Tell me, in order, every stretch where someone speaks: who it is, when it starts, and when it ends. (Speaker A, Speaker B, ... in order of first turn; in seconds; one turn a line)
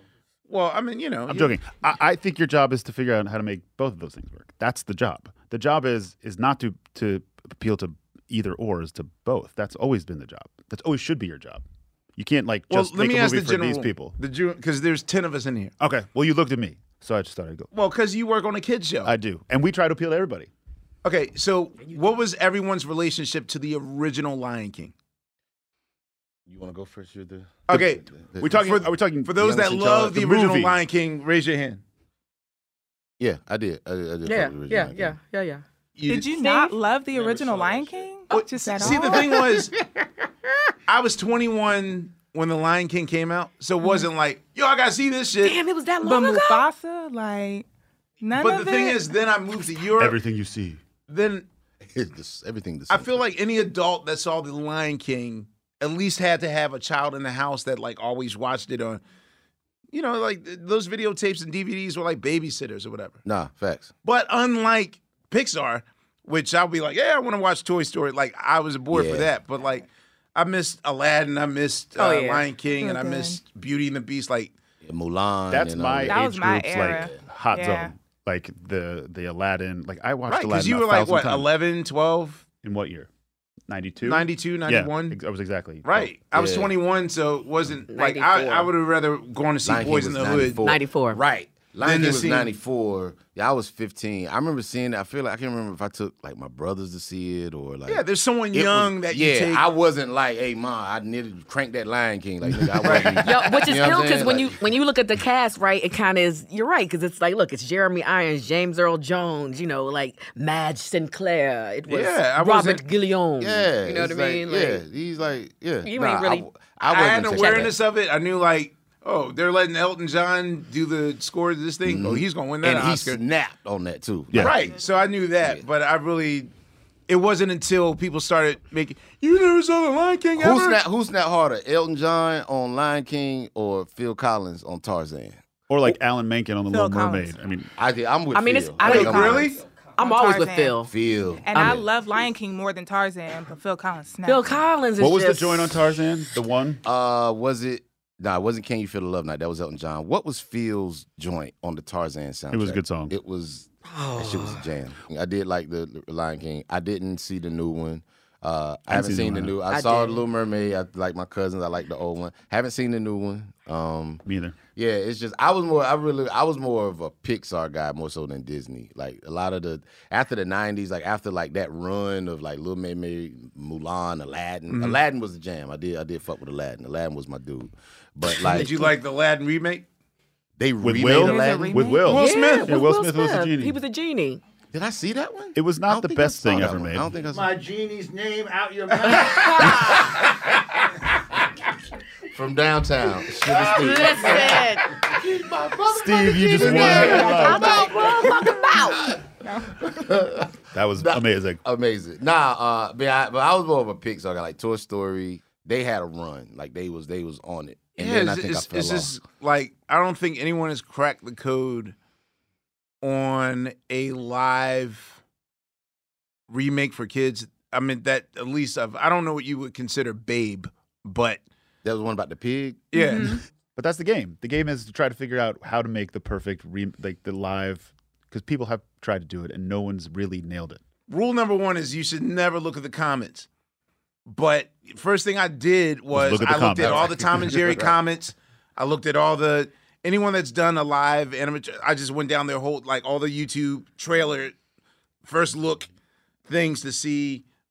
Speaker A: 0.5-1.6
Speaker B: 1.3-11.6
Speaker B: 12.2-14.2
Speaker A: 12.7-15.7
Speaker B: 15.8-17.7
Speaker A: 17.7-19.1
Speaker B: 19.0-20.5
Speaker A: 21.0-24.9
Speaker C: 26.5-28.7
Speaker A: 27.7-31.8
Speaker B: 28.4-30.7
Speaker C: 33.2-35.1
Speaker D: 34.2-35.6
Speaker A: 36.0-36.3
Speaker E: 36.1-39.2
Speaker D: 36.3-36.7
Speaker A: 37.1-39.7
Speaker D: 38.3-39.4
Speaker A: 40.9-45.5
Speaker D: 45.4-46.6
Speaker E: 46.0-47.6
Speaker E: 48.2-49.0
Speaker A: 48.4-50.2
Speaker B: 50.0-50.8
Speaker A: 51.1-51.5
Speaker C: 51.9-53.2
Speaker A: 52.9-59.0
Speaker A: 59.9-63.2
Speaker C: 63.2-63.9
Speaker A: 64.0-74.5
Speaker C: 68.9-69.3
Speaker D: 72.0-72.5
Speaker E: 72.8-73.4
Speaker C: 74.8-76.2
Speaker B: 75.5-81.5
Speaker E: 76.1-77.9
Speaker C: 76.8-77.2
Speaker A: 80.3-82.4
Speaker B: 82.6-83.1
Speaker B: 83.7-86.1
Speaker A: 84.0-85.2
Speaker A: 85.8-90.6
Speaker C: 86.3-86.7
Speaker D: 87.9-88.7
Speaker C: 89.6-104.6
Speaker D: 90.6-91.2
Speaker A: 91.8-92.5
Speaker A: 97.9-99.7
Speaker B: 102.7-103.0
Speaker A: 102.8-103.2
Speaker D: 103.2-114.8
Speaker A: 111.9-112.8
Speaker C: 113.4-117.8
Speaker D: 115.8-116.5
Speaker A: 116.8-123.2
Speaker D: 117.3-117.7
Speaker C: 121.8-124.7
Speaker A: 124.3-126.5
Speaker A: 127.1-130.8
Speaker C: 130.4-135.4
Speaker B: 135.7-137.7
Speaker E: 136.7-137.3
Speaker C: 137.8-139.5
Speaker D: 138.3-140.9
Speaker A: 138.8-139.6
Speaker E: 140.0-140.8
Speaker C: 140.9-141.8
Speaker E: 141.4-144.6
Speaker D: 141.5-141.8
Speaker D: 144.2-145.8
Speaker B: 145.0-146.8
Speaker C: 146.8-164.2
Speaker B: 152.5-153.1
Speaker D: 153.8-154.6
Speaker B: 158.9-159.5
Speaker D: 159.7-160.2
Speaker B: 164.2-164.6
Speaker C: 164.7-178.7
Speaker A: 174.7-175.0
Speaker A: 178.4-179.8
Speaker C: 180.6-181.8
Speaker B: 180.8-183.8
Speaker E: 181.2-182.1
Speaker A: 182.0-182.7
Speaker D: 182.1-184.4
Speaker C: 184.7-187.6
Speaker B: 185.5-187.1
Speaker F: 187.2-190.3
Speaker D: 189.2-190.0
Speaker C: 189.6-190.1
Speaker C: 192.3-199.2
Speaker F: 193.4-196.4
Speaker D: 193.6-194.9
Speaker B: 195.9-197.8
Speaker D: 196.6-199.1
Speaker E: 196.9-197.9
Speaker C: 199.8-209.2
Speaker B: 200.7-201.6
Speaker A: 208.0-211.9
Speaker A: 213.0-215.2
Speaker A: 216.5-221.4
Speaker C: 221.8-222.9
Speaker A: 222.9-223.4
Speaker E: 222.9-223.4
Speaker B: 223.8-230.8
Speaker A: 231.1-233.5
Speaker A: 234.3-244.5
Speaker B: 236.1-237.5
Speaker C: 236.5-237.9
Speaker A: 245.2-245.9
Speaker A: 246.5-247.4